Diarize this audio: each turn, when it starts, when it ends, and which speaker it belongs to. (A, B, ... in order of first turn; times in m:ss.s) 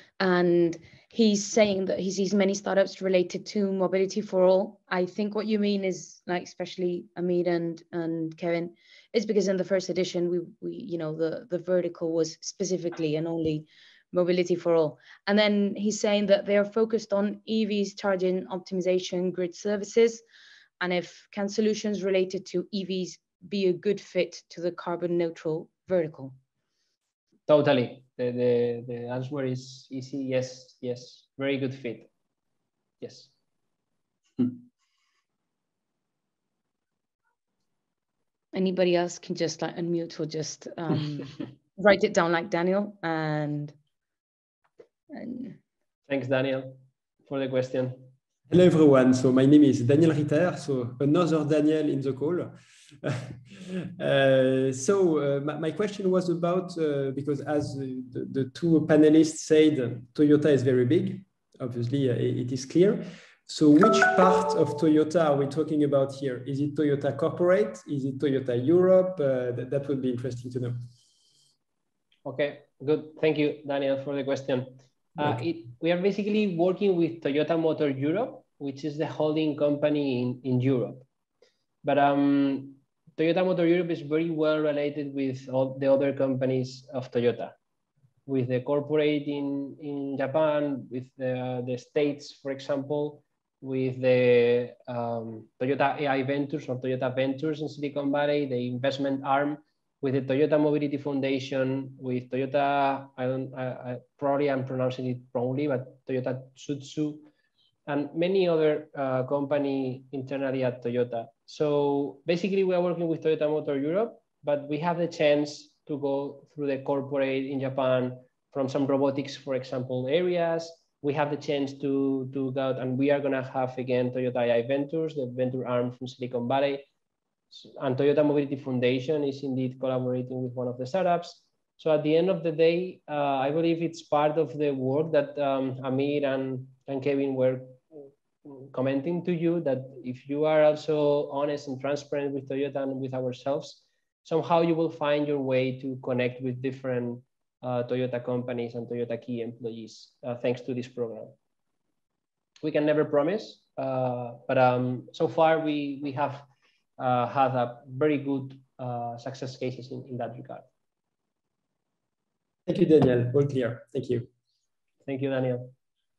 0:00.2-0:20.2 A
0:20.8-0:26.3 A
0:27.5-0:32.1 B
0:33.0-0:33.3 B
0:38.5-0:43.7 A
0:45.1-0:45.6 A
0:46.1-0:48.1 B
0:48.5-0:53.4 C
0:54.0-1:10.8 C
1:12.2-1:21.0 B
1:21.8-1:27.6 B
1:28.3-1:47.3 B
1:47.9-2:06.9 B
2:07.5-2:17.8 B
2:18.4-2:31.3 B
2:32.6-2:36.5 B
2:37.0-2:40.6 B
2:42.7-2:44.3 C
2:45.0-2:45.7 B